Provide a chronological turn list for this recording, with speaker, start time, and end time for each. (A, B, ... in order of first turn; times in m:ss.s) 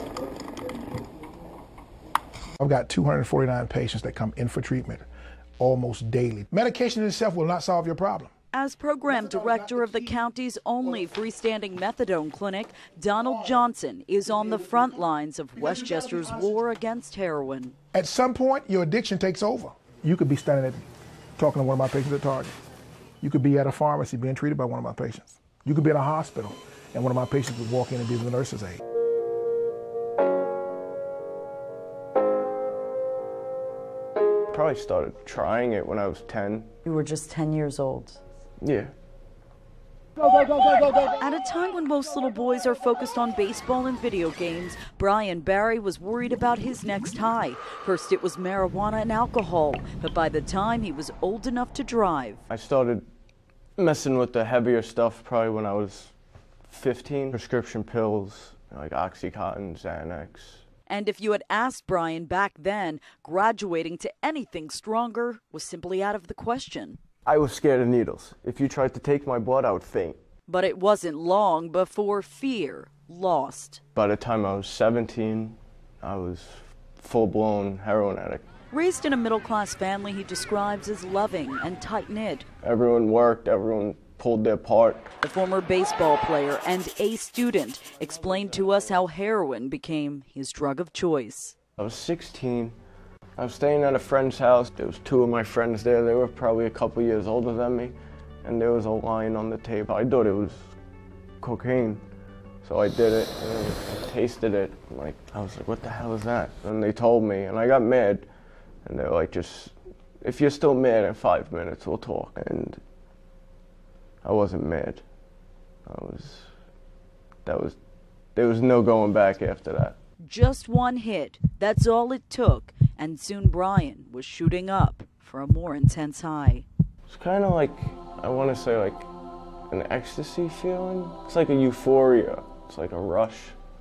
0:02.6-0:08.3 A
0:08.5-0:17.7 B
0:17.9-0:20.8 A
0:21.4-0:22.5 A
0:23.2-0:28.8 A
0:34.5-0:36.7 C
0:36.8-0:38.2 B
0:38.6-0:38.9 C
0:41.1-0:52.4 B
0:52.5-0:53.0 C
0:53.8-1:00.6 C
1:00.9-1:07.0 B
1:07.2-1:10.2 C
1:10.5-1:13.8 B
1:13.9-1:18.4 C
1:18.7-1:22.5 B
1:22.6-1:25.1 C
1:25.2-1:31.5 B
1:31.8-1:32.8 C
1:33.4-1:40.8 C
1:41.4-1:42.0 C
1:42.6-1:52.8 C
1:54.2-1:55.0 C
1:55.8-1:56.5 C
1:57.4-2:00.0 C
2:00.2-2:06.6 B
2:07.1-2:09.1 C
2:09.7-2:13.6 C